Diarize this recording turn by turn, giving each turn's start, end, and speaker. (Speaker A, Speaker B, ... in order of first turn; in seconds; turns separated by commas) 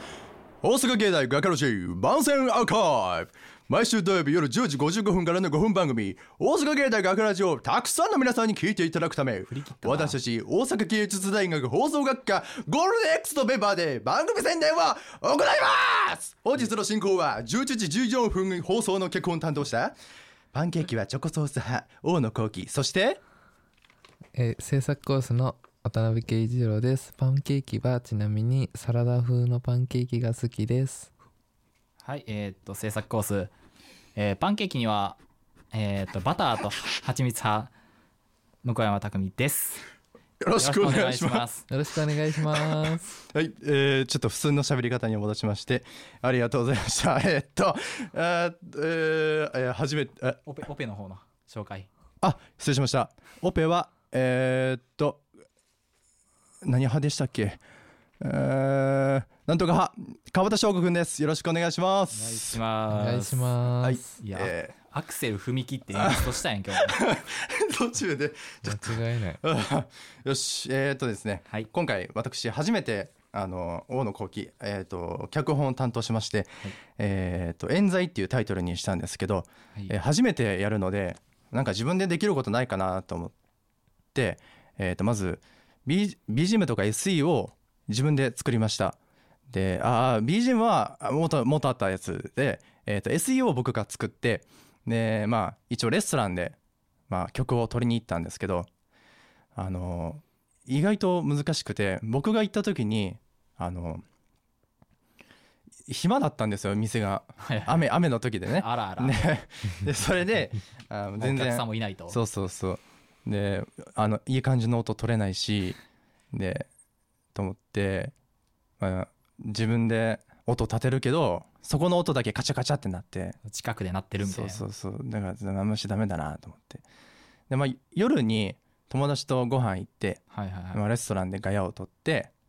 Speaker A: 0.6-19.9, Speaker B: 9.5-10.2, Speaker A: 20.5-23.2, Speaker C: 24.3-31.1, Speaker B: 32.0-33.5, Speaker B: 34.1-35.2, Speaker B: 35.7-37.7, Speaker B: 38.6-39.9, Speaker A: 40.4-41.4, Speaker B: 40.6-41.7, Speaker C: 41.7-43.1, Speaker A: 42.4-50.4, Speaker B: 50.5-51.9, Speaker A: 52.2-55.2, Speaker A: 56.6-57.6, Speaker A: 58.2-62.6, Speaker B: 62.1-63.6, Speaker C: 62.9-64.1, Speaker A: 63.8-64.7, Speaker B: 64.2-67.0, Speaker A: 65.9-83.3, Speaker C: 68.6-69.4, Speaker A: 84.1-89.0, Speaker A: 89.5-96.6, Speaker A: 97.1-98.7, Speaker A: 99.5-104.0, Speaker A: 105.9-115.8, Speaker B: 107.4-107.9, Speaker B: 108.5-109.2, Speaker B: 111.2-112.2, Speaker A: 116.3-116.7, Speaker A: 117.3-118.1, Speaker A: 118.8-123.4, Speaker B: 123.5-124.6, Speaker A: 124.2-126.8, Speaker A: 127.5-130.2, Speaker B: 130.3-130.8, Speaker A: 130.7-132.3